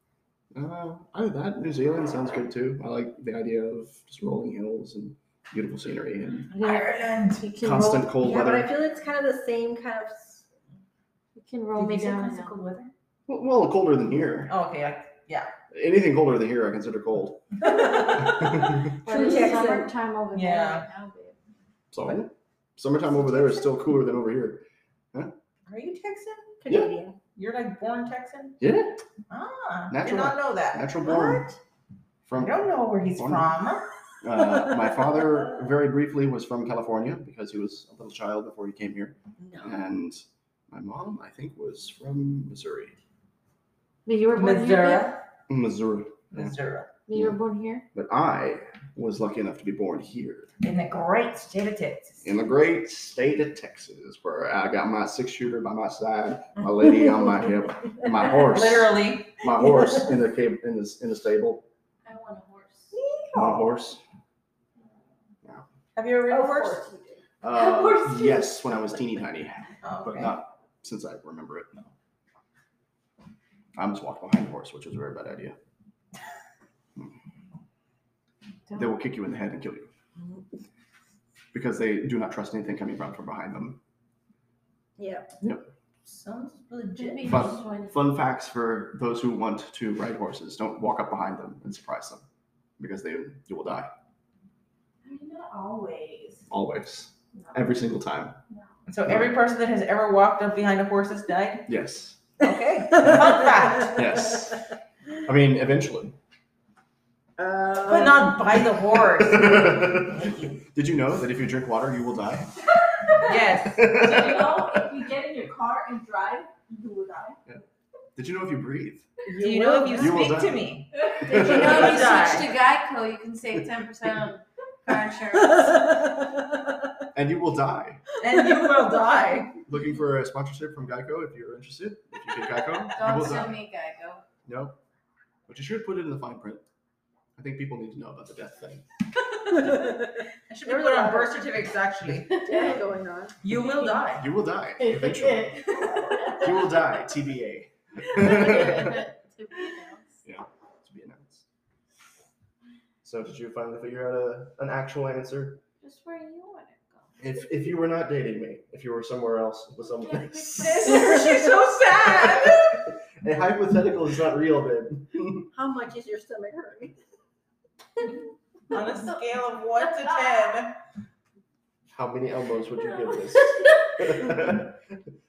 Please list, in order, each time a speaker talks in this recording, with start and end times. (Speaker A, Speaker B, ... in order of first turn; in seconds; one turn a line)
Speaker A: 0.5-6.5
Speaker B: 6.5-7.5
Speaker C: 6.5-8.1
Speaker A: 7.6-8.7
Speaker D: 8.2-10.4
Speaker C: 11.3-12.6
Speaker B: 11.8-12.9
Speaker A: 13.3-14.5
Speaker B: 14.5-15.5
Speaker A: 15.7-17.4
Speaker D: 17.6-19.9
Speaker B: 17.7-18.1
Speaker A: 18.1-18.9
Speaker C: 19.0-21.4
Speaker B: 20.3-20.9
Speaker A: 21.9-25.3
Speaker D: 23.2-23.6
Speaker B: 25.7-26.6
Speaker D: 26.6-27.2
Speaker B: 27.4-28.6
Speaker A: 28.6-29.0
Speaker B: 29.3-30.9
Speaker A: 29.9-31.4
Speaker D: 31.0-31.6
Speaker A: 32.3-33.5
Speaker B: 32.4-33.8
Speaker A: 34.2-43.0
Speaker D: 34.6-35.2
Speaker D: 39.4-39.8
Speaker C: 44.1-45.2
Speaker B: 44.4-45.2
Speaker A: 45.5-46.5
Speaker B: 46.3-46.9
Speaker C: 47.1-47.9
Speaker A: 47.1-47.4
Speaker A: 47.9-50.5
Speaker B: 50.6-52.3
Speaker A: 52.2-61.6
Speaker B: 58.2-59.4
Speaker E: 62.1-62.9
Speaker D: 62.9-63.8
Speaker A: 63.4-64.0
Speaker B: 66.0-66.9
Speaker D: 66.3-67.2
Speaker A: 67.4-71.9
Speaker E: 67.5-68.5
Speaker B: 69.8-70.4
Speaker A: 73.8-75.6
Speaker A: 78.8-79.9
Speaker A: 81.5-83.8
Speaker D: 85.0-85.3
Speaker B: 86.0-87.5
Speaker C: 87.0-88.0
Speaker A: 87.2-92.2
Speaker A: 92.8-93.9
Speaker E: 95.0-96.5
Speaker A: 96.5-98.4
Speaker B: 98.9-101.7
Speaker A: 99.1-99.4
Speaker A: 101.7-102.2
Speaker B: 102.4-104.0
Speaker D: 102.4-103.9
Speaker A: 103.9-104.6
Speaker A: 105.2-106.2
Speaker D: 107.4-108.4
Speaker B: 107.9-110.6
Speaker A: 109.1-112.5
Speaker E: 112.8-117.4
Speaker B: 113.3-114.0
Speaker A: 113.8-115.0
Speaker A: 118.2-119.1
Speaker D: 119.3-120.2
Speaker B: 119.4-122.5
Speaker A: 120.0-122.1
Speaker E: 120.9-122.2
Speaker C: 121.3-126.0
Speaker D: 125.5-126.2
Speaker A: 127.1-128.0
Speaker B: 128.2-129.6
Speaker A: 129.7-133.6
Speaker C: 132.9-134.2
Speaker A: 134.5-134.8
Speaker A: 135.5-136.6
Speaker A: 137.4-138.8
Speaker B: 139.5-140.0
Speaker D: 139.6-141.4
Speaker B: 140.5-142.5
Speaker C: 142.3-142.8
Speaker D: 142.3-143.4
Speaker B: 143.4-144.3
Speaker A: 144.2-145.8
Speaker C: 144.8-146.5
Speaker A: 146.3-149.1
Speaker C: 148.1-150.2
Speaker A: 150.2-151.4
Speaker A: 153.0-155.6
Speaker C: 155.8-157.2
Speaker A: 157.2-161.1
Speaker C: 160.0-160.8
Speaker B: 160.6-162.9
Speaker A: 162.0-165.5
Speaker D: 165.5-167.0
Speaker B: 168.7-170.8
Speaker A: 171.9-175.0